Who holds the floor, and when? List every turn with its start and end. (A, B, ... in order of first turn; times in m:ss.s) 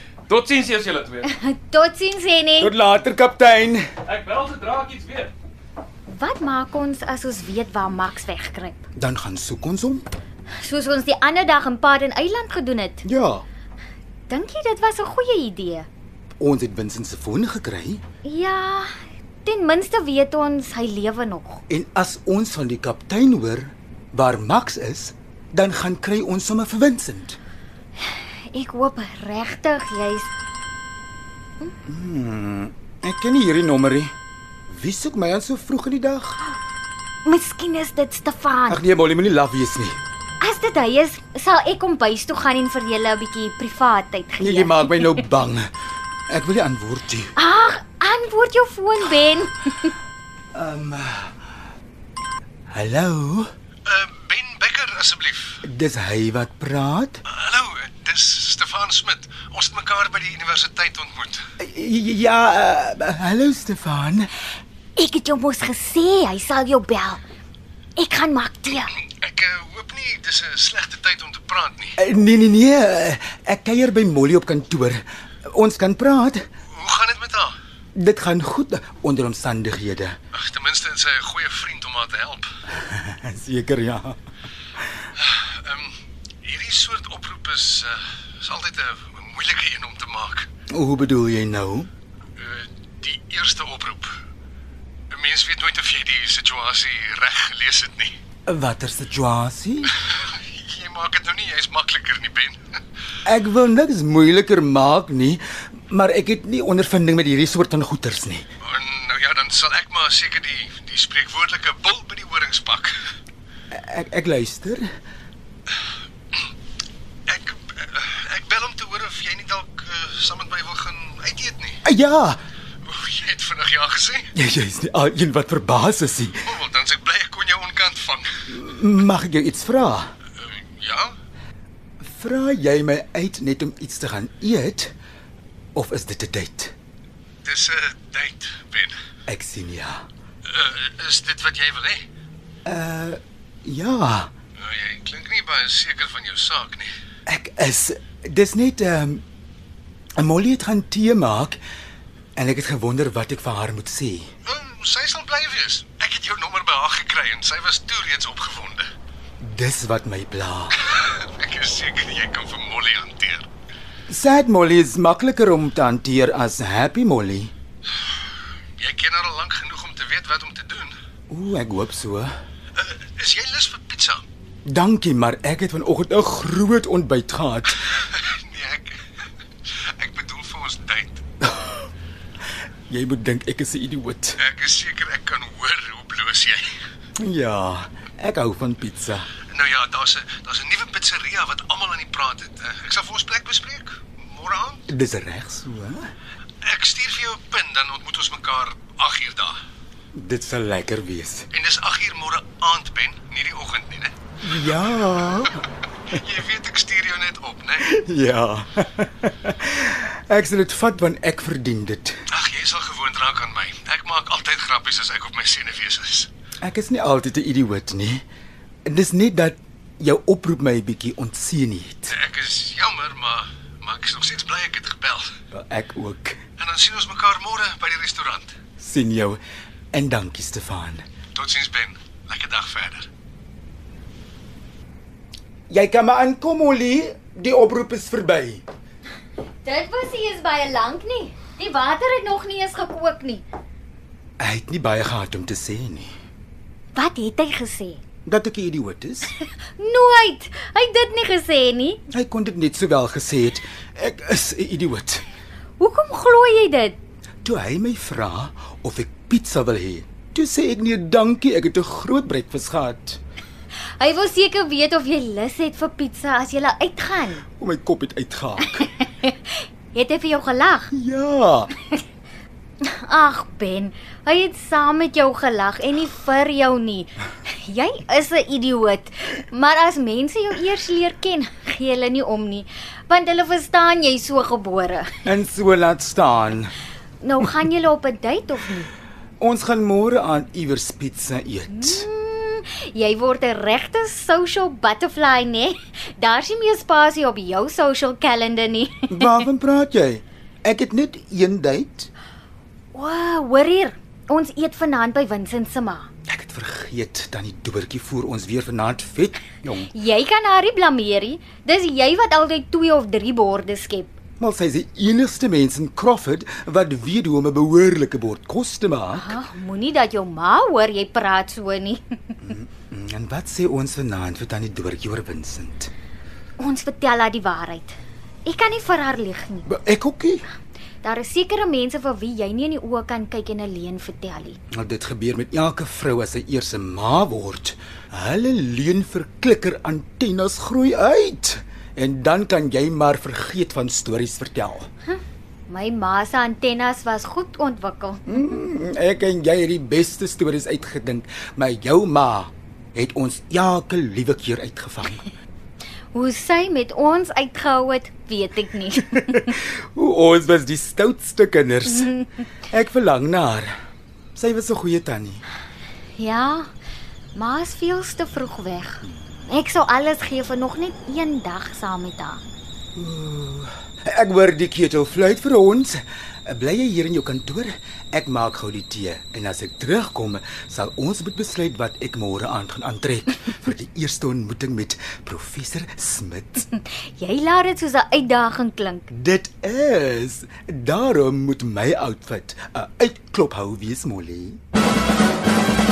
0:00.3-0:01.3 A
0:01.2-0:02.7 B
0:02.6-0:03.8 C
0:04.0-0:05.3 A
0:06.1-0:08.8 B
0:09.0-0:10.1 C
0:10.6-0:13.0 B
0:13.0-0:13.4 C
0:14.3-0:15.9 B
0:16.4-0:18.0 C
0:18.2-0:18.9 B
0:19.4-0:21.6 B
0:21.7-0:27.4 C
0:28.1-0:30.3 B
0:31.8-0:34.1 C
0:34.7-0:36.4 C
0:37.2-0:38.8 B
0:38.7-0:40.0 C
0:40.4-0:45.2 B
0:44.4-0:45.7 C
0:46.3-0:47.3 C
0:47.4-0:49.9 B
0:50.5-0:51.4 C
0:52.7-0:53.5 C
0:53.8-0:55.6 D
0:55.6-0:57.2 C
0:57.3-1:01.4 D
1:01.6-1:04.3 C
1:05.0-1:07.2 B
1:08.0-1:08.9 B
1:09.1-1:12.0 D
1:12.0-1:16.4 C
1:16.7-1:17.5 D
1:18.0-1:20.2 C
1:20.3-1:22.5 D
1:22.7-1:24.2 C
1:25.2-1:30.5 D
1:30.7-1:31.9 C
1:32.4-1:34.1 D
1:35.1-1:38.1 D
1:38.5-1:39.9 C
1:40.0-1:42.6 D
1:43.2-1:48.4 C
1:48.6-1:53.0 D
1:53.7-1:54.9 C
1:57.3-2:01.8 D
2:01.8-2:02.4 C
2:02.8-2:04.3 D
2:04.3-2:06.4 C
2:06.4-2:08.4 D
2:08.5-2:10.1 C
2:10.4-2:11.1 D
2:12.0-2:14.9 C
2:15.7-2:16.7 C
2:17.4-2:19.0 D
2:19.3-2:20.0 C
2:20.4-2:22.0 D
2:22.6-2:24.3 C
2:24.6-2:26.9 D
2:27.2-2:29.2 C
2:30.2-2:31.6 C
2:32.4-2:34.3 C
2:34.4-2:38.8 D
2:39.4-2:40.8 C
2:40.8-2:43.5 D
2:44.1-2:47.5 C
2:48.8-2:50.9 D
2:51.3-2:52.3 C
2:52.8-2:54.2 D
2:54.6-2:58.0 C
2:57.9-2:59.0 D
2:59.6-3:01.2 D
3:01.4-3:01.9 C
3:02.9-3:04.4 C
3:04.4-3:06.8 D
3:07.2-3:09.3 C
3:09.5-3:14.8 D
3:14.9-3:16.1 C
3:16.6-3:19.6 D
3:20.1-3:21.5 C
3:21.5-3:24.1 D
3:24.4-3:25.7 C
3:26.1-3:27.9 D
3:27.8-3:32.2 C
3:32.3-3:36.3 D
3:36.6-3:38.2 C
3:38.8-3:42.1 C
3:42.1-3:45.3 D
3:45.5-3:46.4 C
3:46.6-3:48.5 D
3:48.8-3:49.4 C
3:49.9-3:51.0 C
3:51.3-3:53.1 D
3:55.7-3:58.6 C
3:59.6-4:03.4 B
4:04.4-4:06.1 C
4:06.9-4:08.0 B
4:08.2-4:09.3 C
4:09.4-4:12.0 B
4:12.1-4:15.2 C
4:15.8-4:17.0 B
4:17.4-4:23.2 C
4:24.0-4:27.4 B
4:27.5-4:28.8 C
4:28.7-4:30.9 B
4:30.9-4:31.7 C
4:32.8-4:45.1 B
4:45.2-4:46.7 C
4:47.2-4:48.9 B
4:49.4-4:52.0 C
4:51.7-4:59.4 B
4:59.1-5:02.1 C
5:02.9-5:06.1 B
5:06.3-5:09.9 C
5:09.9-5:14.1 B
5:14.4-5:19.4 C
5:19.1-5:22.4 B
5:22.4-5:25.9 C
5:26.6-5:29.7 B
5:29.6-5:30.4 C
5:31.0-5:34.6 B
5:34.7-5:44.9 C
5:45.0-5:48.2 B
5:48.3-5:55.3 C
5:56.1-5:59.4 B
5:59.2-6:03.7 C
6:04.3-6:05.4 C
6:06.2-6:06.7 B
6:07.3-6:12.4 B
6:12.9-6:26.7 C
6:26.9-6:29.1 B
6:29.1-6:34.6 C